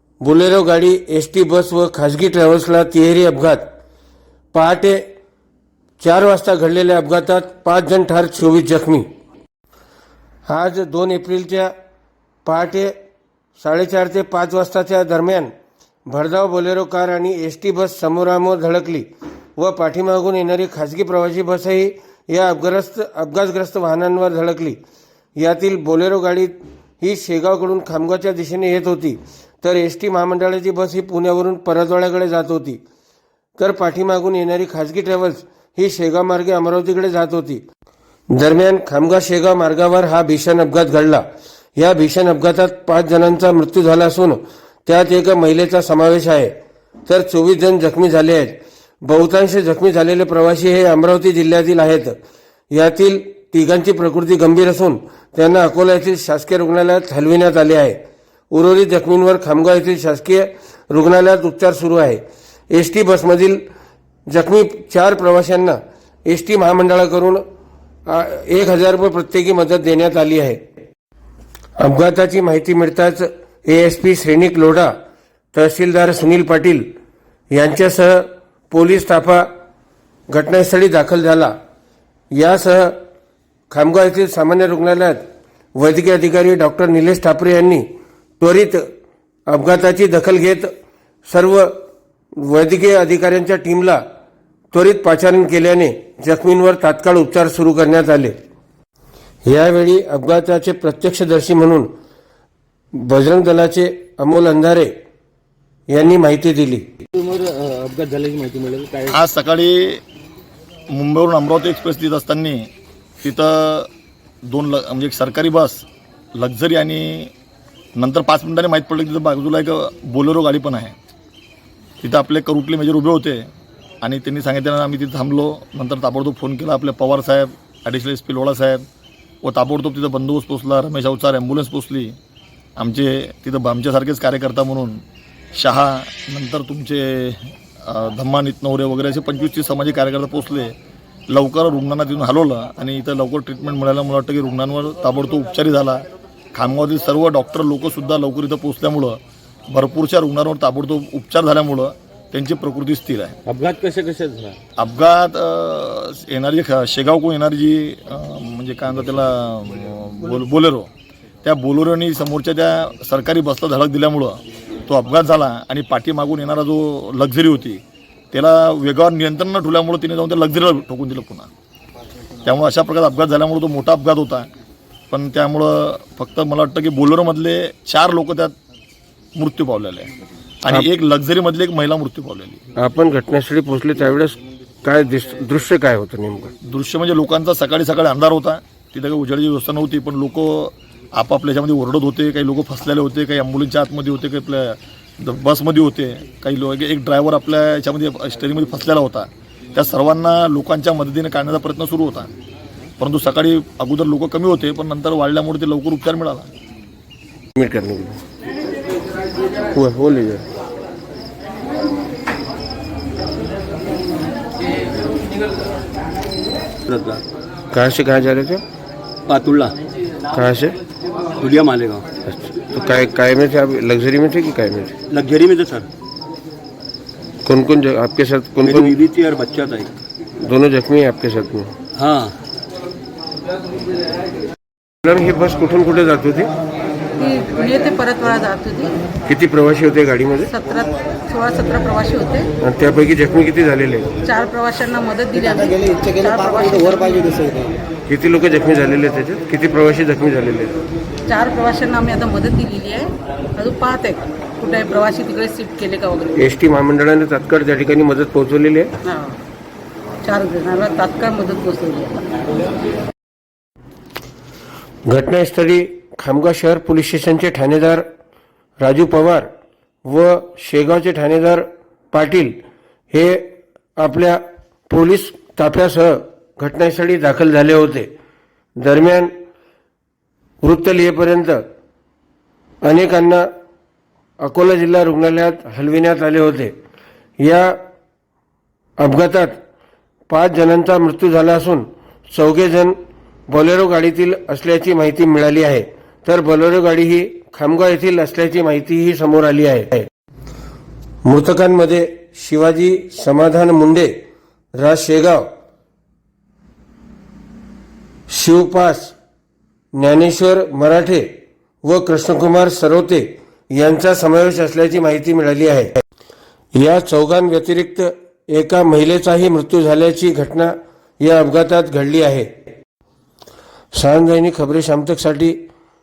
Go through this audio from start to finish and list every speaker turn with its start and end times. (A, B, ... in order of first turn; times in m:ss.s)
0:00.2-0:03.6 A
0:04.5-0:05.0 A
0:06.0-0:09.1 A
0:10.5-0:11.7 A
0:12.4-0:12.9 A
0:13.6-0:15.5 A
0:16.1-0:24.8 A
0:25.4-0:32.8 A
0:33.6-0:37.6 A
0:38.3-0:41.2 A
0:41.8-0:46.5 A
0:47.1-0:52.2 A
0:52.7-0:58.0 A
0:58.5-1:03.6 A
1:04.3-1:07.4 A
1:08.1-1:10.6 A
1:11.8-1:14.9 A
1:15.5-1:16.8 A
1:17.5-1:19.5 A
1:20.3-1:21.5 A
1:22.3-1:23.0 A
1:23.7-1:25.2 A
1:25.8-1:27.8 A
1:28.4-1:28.8 A
1:29.5-1:30.7 A
1:31.3-1:31.7 A
1:32.4-1:34.0 A
1:34.7-1:38.3 A
1:39.4-1:41.9 A
1:43.0-1:44.9 A
1:45.9-1:46.8 A
1:47.1-1:49.2 B
1:49.1-1:50.0 C
1:50.9-1:52.7 C
1:53.2-1:53.9 C
1:54.5-1:57.3 C
1:58.0-2:00.9 C
2:02.0-2:03.5 C
2:04.0-2:08.8 C
2:09.4-2:12.2 C
2:12.8-2:15.0 C
2:15.5-2:20.7 C
2:21.3-2:33.4 C
2:33.4-2:34.6 B
2:34.8-2:40.9 C
2:41.4-2:51.5 C
2:52.4-2:54.5 C
2:55.1-2:58.5 C
2:59.4-3:00.1 C
3:00.6-3:02.6 C
3:02.8-3:06.5 A
3:06.6-3:22.3 C
3:23.0-3:26.5 C
3:27.6-3:28.2 A
3:29.7-3:30.4 A
3:36.9-3:37.2 D
3:37.7-3:38.6 A
3:39.3-3:39.7 D
3:40.3-3:40.8 A
3:41.4-3:42.0 D
3:42.3-3:45.0 A
3:45.1-3:45.9 D
3:47.4-3:49.0 A
3:48.6-3:50.0 D
3:50.4-3:51.7 A
3:52.0-3:52.3 D
3:55.0-3:56.5 A
3:57.2-3:59.0 E
3:59.2-4:00.5 A
4:00.5-4:02.5 E
4:02.6-4:04.1 A
4:04.2-4:07.7 E
4:08.1-4:10.7 A
4:11.3-4:16.4 E
4:16.4-4:18.9 A
4:19.0-4:19.4 E
4:20.2-4:22.3 E
4:25.1-4:28.0 A
4:28.8-4:29.5 A
4:30.0-4:32.6 A
4:33.1-4:38.1 A
4:38.8-4:39.3 A
4:40.6-4:41.6 A
4:42.8-4:43.5 A
4:44.4-4:46.7 A
4:47.4-4:47.8 A
4:49.0-4:49.6 A
4:50.3-4:53.0 A
4:53.5-5:00.1 A
5:01.2-5:04.1 A
5:04.8-5:05.4 A
5:08.3-5:09.1 A
5:10.0-5:11.3 A
5:11.8-5:16.0 A
5:16.7-5:22.5 A
5:23.9-5:25.6 A